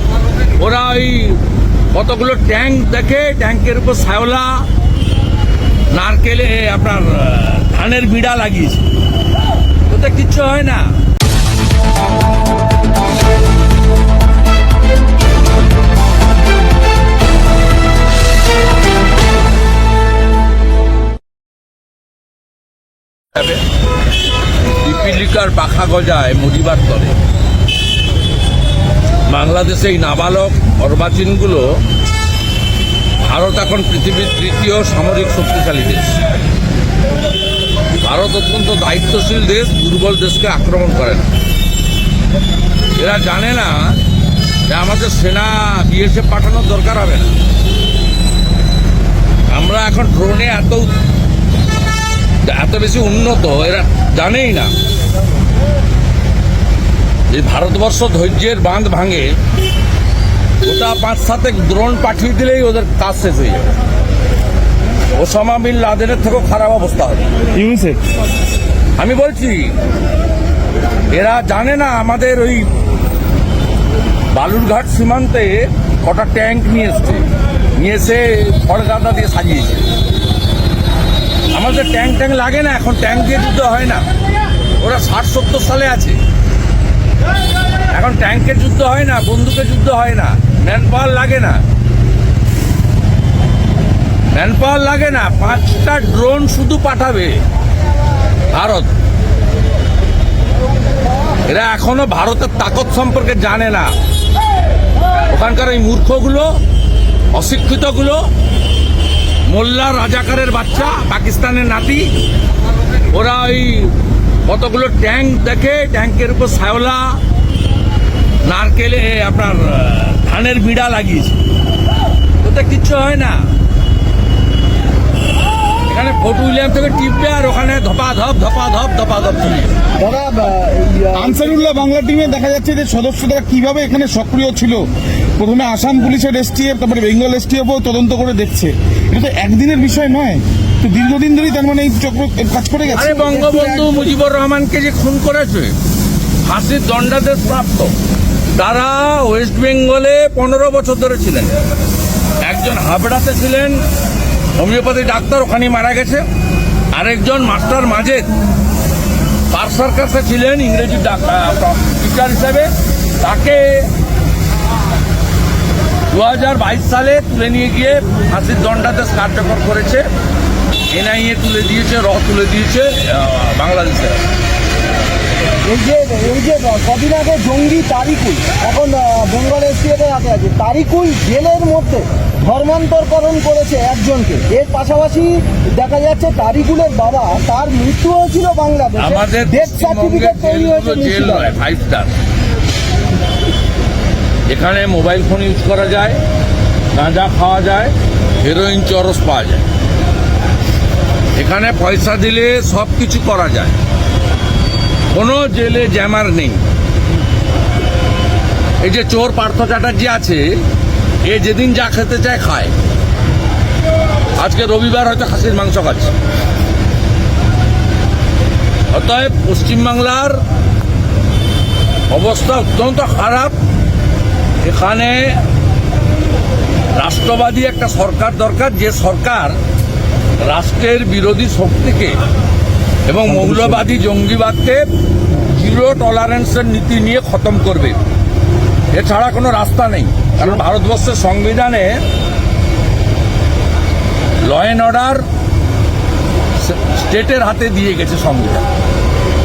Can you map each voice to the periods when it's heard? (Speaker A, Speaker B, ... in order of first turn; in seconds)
Speaker A: 0.6-1.4, 1.9-4.7, 5.9-8.9, 9.9-10.9, 23.3-23.6, 24.7-27.1, 29.3-31.8, 33.3-36.2, 38.0-41.3, 43.0-44.0, 44.7-47.3, 49.5-50.9, 52.4-54.7, 57.3-59.3, 60.6-63.7, 65.1-67.2, 69.0-69.8, 71.1-72.8, 74.3-79.9, 81.5-84.0, 84.8-86.2, 87.9-91.6, 94.3-97.4, 98.5-98.9, 101.5-103.9, 105.3-106.5, 107.3-108.2, 109.5-112.1, 113.1-113.9, 114.4-117.2, 118.4-121.4, 122.4-123.4, 125.8-129.7, 142.9-145.7, 146.4-147.9, 148.5-151.6, 152.4-153.8, 154.6-156.2, 156.9-158.3, 159.5-163.9, 166.1-170.1, 170.9-174.2, 189.0-192.1, 194.5-196.2, 196.9-199.7, 201.3-203.8, 205.1-206.6, 208.8-210.6, 211.2-212.7, 214.4-216.1, 218.9-220.4, 222.1-223.6, 224.6-225.4, 226.9-229.6, 230.4-232.2, 233.1-238.0, 238.9-242.0, 244.4-245.2, 246.6-248.6
Speaker B: 67.5-68.0, 131.1-143.5, 233.3-233.8
Speaker C: 130.0-131.7, 143.2-144.0, 175.7-191.5